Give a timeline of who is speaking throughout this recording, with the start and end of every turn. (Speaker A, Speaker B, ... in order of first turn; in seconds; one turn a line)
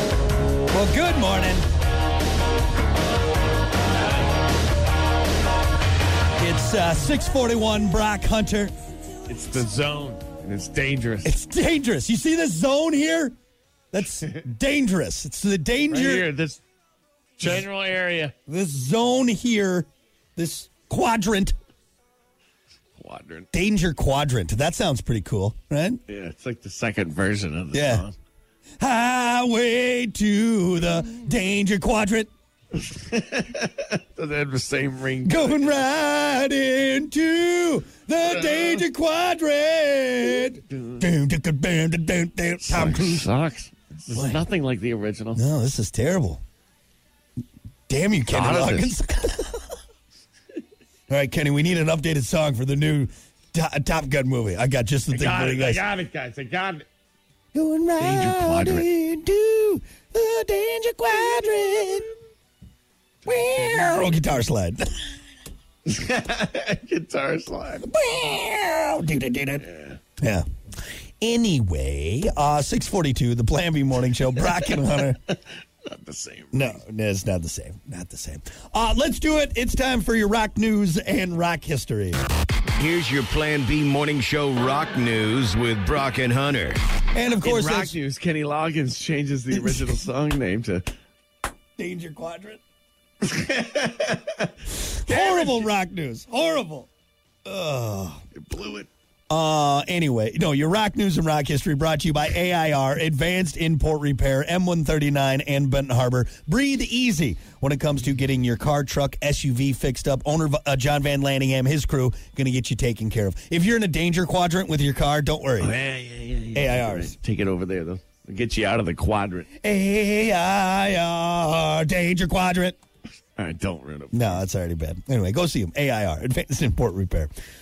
Speaker A: 0.7-1.6
Speaker A: 6.4-8.7
Speaker B: 9.3-11.3
Speaker A: 11.2-13.3
Speaker A: 13.9-16.3
Speaker B: 15.9-16.6
Speaker B: 17.4-18.3
Speaker A: 18.5-21.5
Speaker B: 23.0-23.5
Speaker A: 23.5-26.0
Speaker B: 26.1-28.1
Speaker A: 27.7-28.0
Speaker A: 28.8-32.3
Speaker B: 32.9-35.9
Speaker A: 35.2-43.3
Speaker B: 40.7-41.0
Speaker B: 42.6-45.4
Speaker A: 44.1-44.4
Speaker A: 45.4-46.4
Speaker A: 47.9-49.6
Speaker B: 48.3-49.0
Speaker A: 51.1-55.8
Speaker B: 55.1-56.8
Speaker A: 57.5-62.1
Speaker B: 58.0-58.9
Speaker A: 63.2-64.9
Speaker B: 65.8-67.9
Speaker A: 67.8-69.6
Speaker B: 69.7-70.0
Speaker A: 70.2-70.4
Speaker A: 71.2-75.2
Speaker B: 74.6-75.0
Speaker B: 75.8-76.8
Speaker A: 76.5-82.2
Speaker C: 82.8-86.8
Speaker A: 87.1-88.0
Speaker B: 87.4-90.8
Speaker A: 91.8-92.6
Speaker B: 93.2-94.5
Speaker A: 95.0-96.9
Speaker B: 95.1-95.7
Speaker A: 97.5-98.2
Speaker B: 98.3-98.9
Speaker A: 99.3-115.7
Speaker B: 115.6-119.5
Speaker A: 116.5-117.1
Speaker A: 119.6-122.8
Speaker B: 123.3-124.4
Speaker A: 124.1-127.3